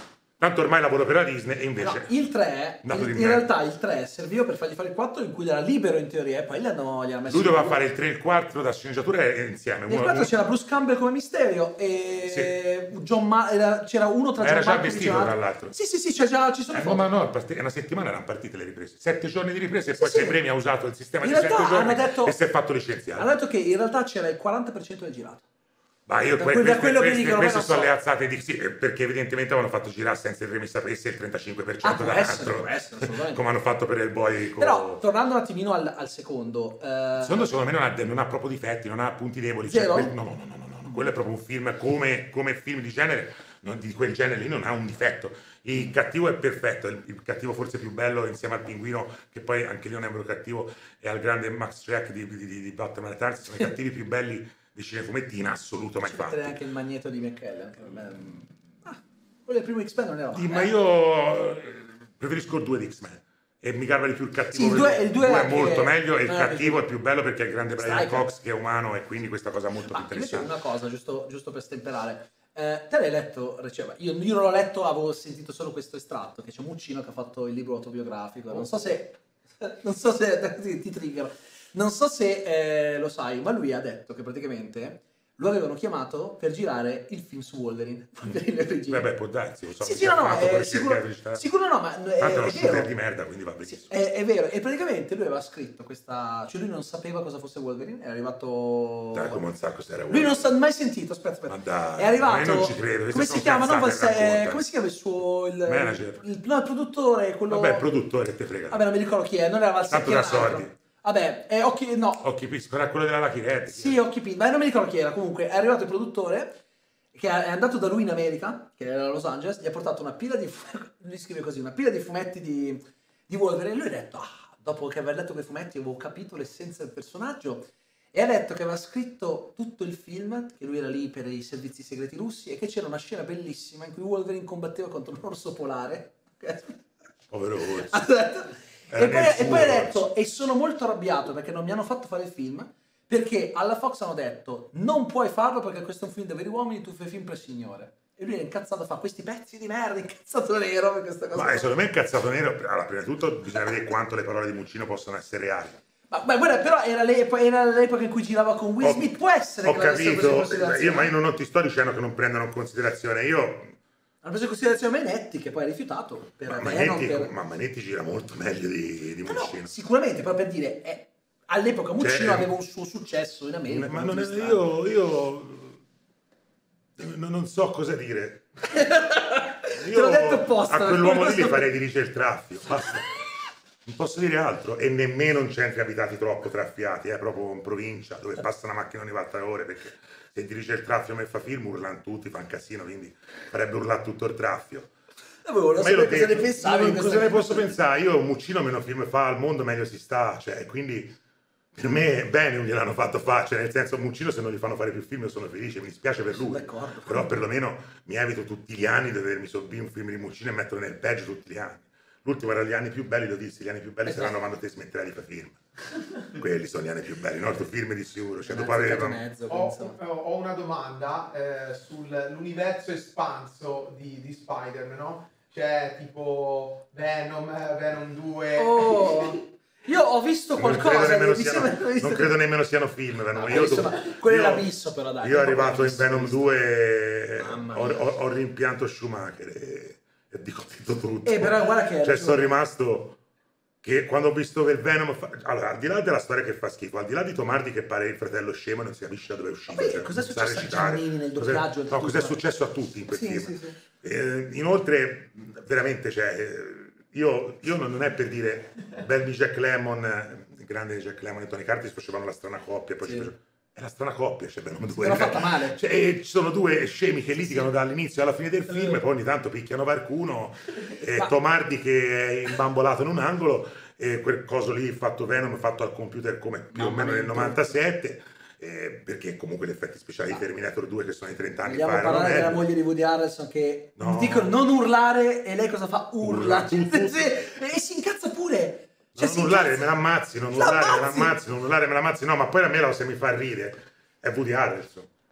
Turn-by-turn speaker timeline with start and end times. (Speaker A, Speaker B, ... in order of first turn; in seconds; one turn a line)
Speaker A: 0.4-2.1
Speaker B: 1.8-7.8
Speaker A: 2.8-3.5
Speaker A: 7.3-10.3
Speaker B: 9.9-17.1
Speaker A: 12.2-12.5
Speaker A: 14.4-15.7
Speaker A: 16.7-23.3
Speaker B: 19.9-20.4
Speaker B: 21.2-22.4
Speaker B: 23.1-25.4
Speaker A: 26.1-35.0
Speaker B: 26.4-27.9
Speaker B: 31.8-33.4
Speaker B: 34.6-37.5
Speaker A: 37.2-56.6
Speaker B: 39.7-40.1
Speaker B: 56.0-60.7
Speaker A: 60.3-70.5
Speaker B: 64.5-66.8
Speaker B: 67.8-68.3
Speaker B: 69.9-89.0
Speaker A: 88.9-91.4
Speaker B: 89.8-92.9
Speaker A: 92.2-94.0
Speaker B: 93.7-99.4
Speaker A: 99.1-100.4
Speaker B: 100.1-107.8
Speaker A: 101.5-104.6
Speaker A: 105.7-106.2
Speaker A: 107.5-108.9
Speaker B: 108.7-112.2
Speaker A: 109.9-110.7
Speaker A: 112.2-114.0
Speaker B: 113.7-116.6
Speaker B: 117.1-136.8
Speaker A: 137.3-138.0
Speaker B: 137.6-151.7
Speaker A: 138.9-140.0
Speaker A: 151.3-155.8
Speaker B: 156.1-161.1
Speaker A: 158.8-163.7
Speaker B: 164.2-167.3
Speaker A: 166.4-169.7
Speaker B: 169.2-174.6
Speaker A: 172.0-172.5
Speaker A: 173.7-175.8
Speaker A: 177.0-178.5
Speaker B: 178.6-181.7
Speaker A: 179.7-183.1
Speaker A: 183.8-194.9
Speaker B: 195.4-197.7
Speaker A: 195.8-201.2
Speaker A: 201.7-215.6
Speaker B: 206.3-207.4
Speaker B: 214.0-214.4
Speaker A: 216.3-219.2
Speaker B: 218.4-219.9
Speaker C: 219.5-229.4
Speaker B: 228.6-232.3
Speaker A: 230.6-234.7
Speaker B: 233.3-236.5
Speaker A: 235.2-243.2
Speaker B: 237.4-238.0
Speaker B: 241.2-242.5
Speaker A: 243.8-282.7
Speaker B: 249.7-252.4
Speaker B: 253.1-253.8
Speaker B: 263.0-263.3
Speaker B: 264.9-265.8
Speaker B: 276.7-277.7
Speaker B: 281.6-289.9
Speaker A: 284.0-284.5
Speaker A: 286.2-287.4
Speaker A: 289.1-295.1
Speaker B: 290.5-291.3